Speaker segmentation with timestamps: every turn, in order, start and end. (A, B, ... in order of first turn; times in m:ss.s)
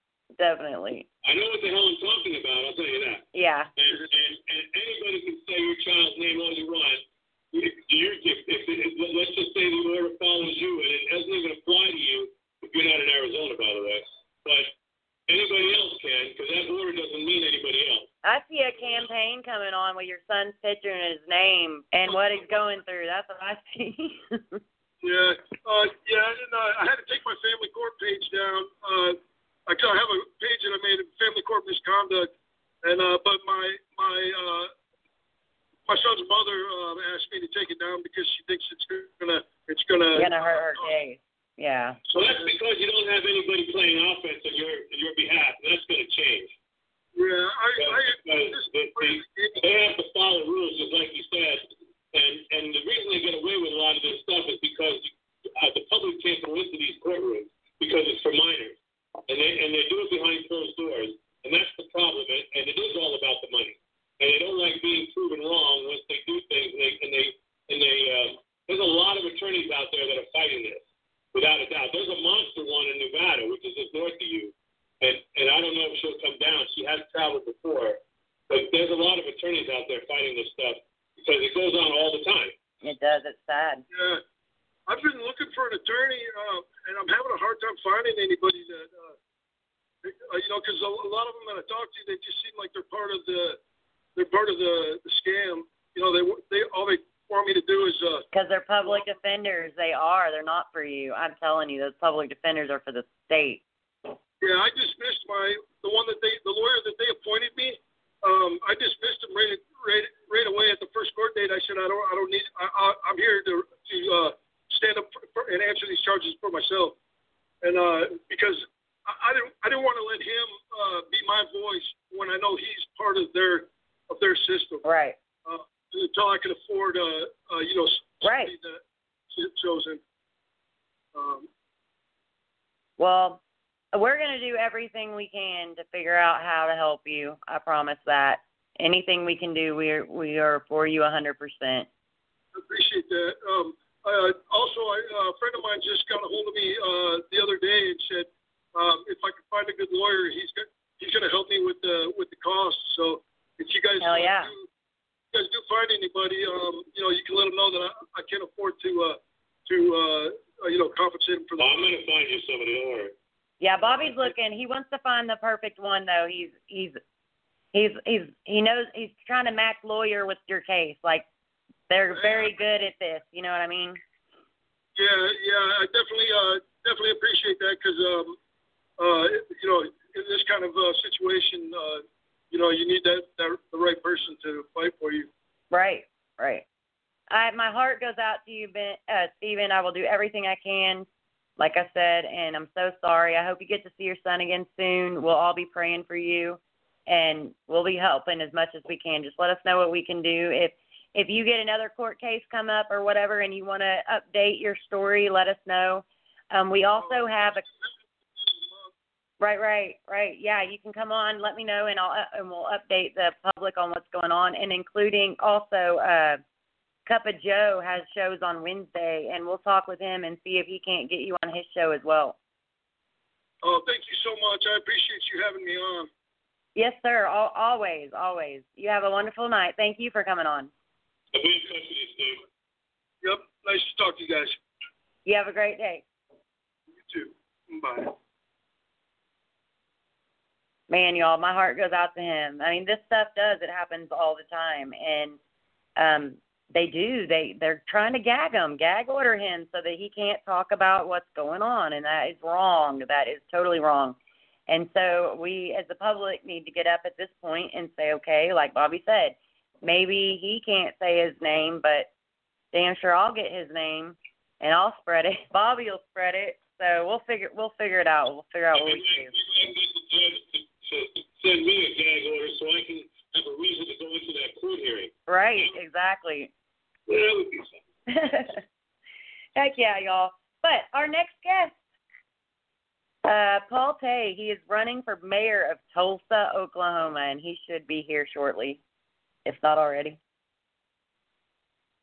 0:00.4-0:01.1 A
0:01.2-0:14.7 B
0:03.3-0:03.7 A
0:15.3-0:18.1 B
0:18.2-0:24.6 A
0:25.0-0:32.3 C
0:32.8-0:34.7 C
0:35.9-0:40.9 C
0:40.1-0:42.0 A
0:42.1-0:46.6 B
0:42.2-0:42.5 C
0:47.1-0:49.6 C
0:47.8-1:22.5 B
1:22.8-1:23.8 A
1:23.9-1:24.2 C
1:24.9-1:29.2 C
1:30.0-1:33.6 C
1:34.2-1:38.2 C
1:38.3-1:43.6 A
1:44.4-1:57.0 C
1:57.6-2:04.8 C
2:04.8-2:05.2 A
2:05.4-2:10.0 C
2:08.2-2:08.5 A
2:11.1-2:11.5 C
2:13.0-2:13.4 A
2:13.9-2:21.9 A
2:22.5-2:34.7 C
2:34.0-2:34.5 A
2:35.3-2:41.7 C
2:41.6-2:43.1 B
2:43.6-2:47.0 A
2:47.7-2:51.2 A
2:51.9-2:54.0 A
2:52.1-2:52.5 C
2:55.0-2:58.4 C
2:59.0-3:05.3 C
3:05.7-3:06.6 A
3:07.3-3:11.0 A
3:11.6-3:27.6 A
3:26.9-3:28.9 C
3:29.4-3:36.4 A
3:37.0-3:42.4 A
3:43.6-3:46.1 C
3:46.8-3:50.7 A
3:51.3-3:52.4 B
3:53.2-3:54.6 C
3:55.2-3:56.0 A
3:56.9-3:58.1 C
4:00.9-4:05.4 A
4:06.0-4:14.2 A
4:14.7-4:22.1 A
4:22.7-4:29.3 A
4:28.7-4:35.7 B
4:35.3-4:36.5 A
4:37.1-4:37.8 B
4:38.1-4:38.6 A
4:39.6-4:41.8 A
4:43.2-4:48.8 A
4:49.4-4:50.2 A